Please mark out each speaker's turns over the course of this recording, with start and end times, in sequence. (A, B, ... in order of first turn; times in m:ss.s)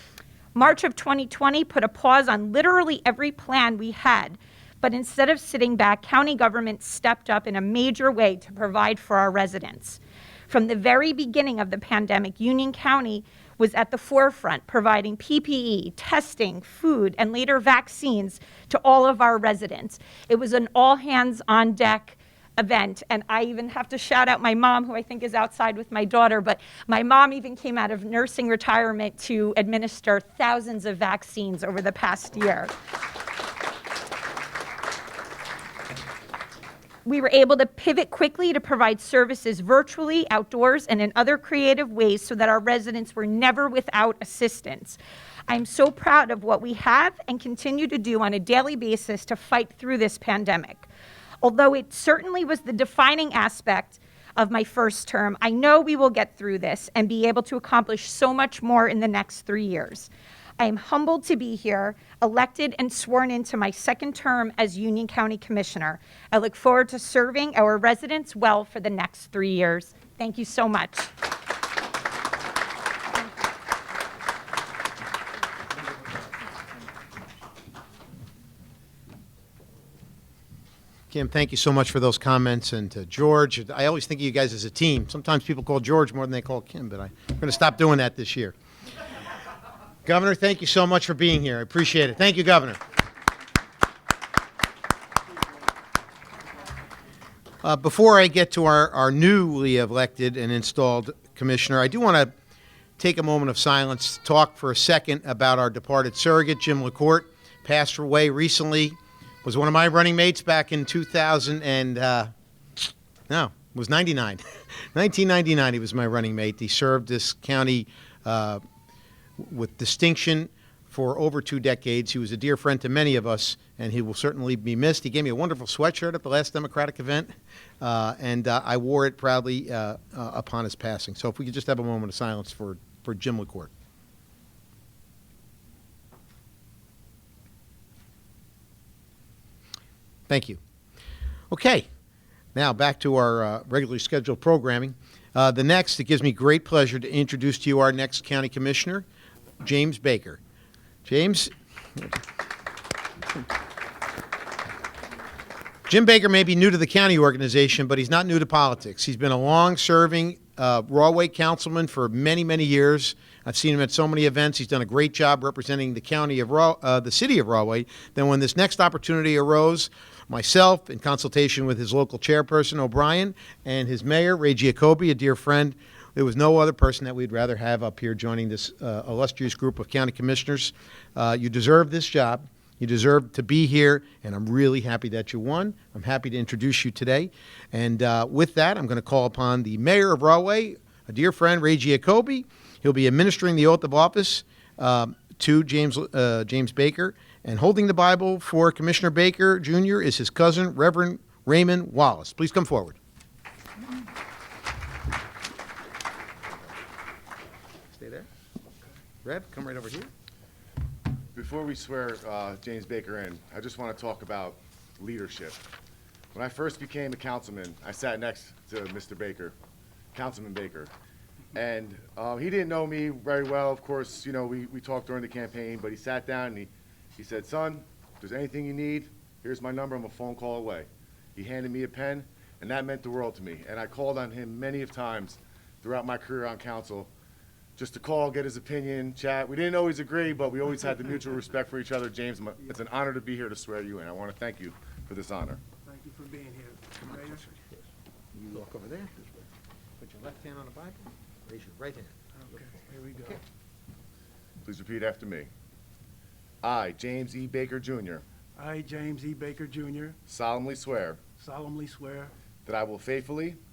0:00.6-0:32.7 A
0:37.0-0:50.9 A
0:51.4-1:11.1 A
1:21.1-1:28.6 B
1:30.0-1:32.8 B
1:37.6-1:42.3 B
1:43.0-1:52.3 B
1:53.3-1:58.6 B
1:59.4-2:13.7 B
2:20.3-2:20.6 B
2:21.5-2:21.9 B
2:22.6-2:29.1 B
2:29.6-2:30.4 B
2:31.0-2:32.2 B
2:35.9-3:23.0 B
3:27.9-3:28.3 B
3:29.2-3:30.1 B
3:31.4-3:35.6 C
3:36.3-3:39.5 C
3:40.1-3:40.9 C
3:41.5-3:57.1 C
3:57.8-4:05.6 C
4:05.8-4:07.5 D
4:07.1-4:07.5 B
4:08.3-4:09.5 B
4:10.0-4:12.2 B
4:12.4-4:13.4 D
4:14.6-4:15.5 C
4:16.6-4:18.2 C
4:18.6-4:20.2 D
4:20.3-4:21.2 C
4:21.4-4:22.3 D
4:22.7-4:23.6 C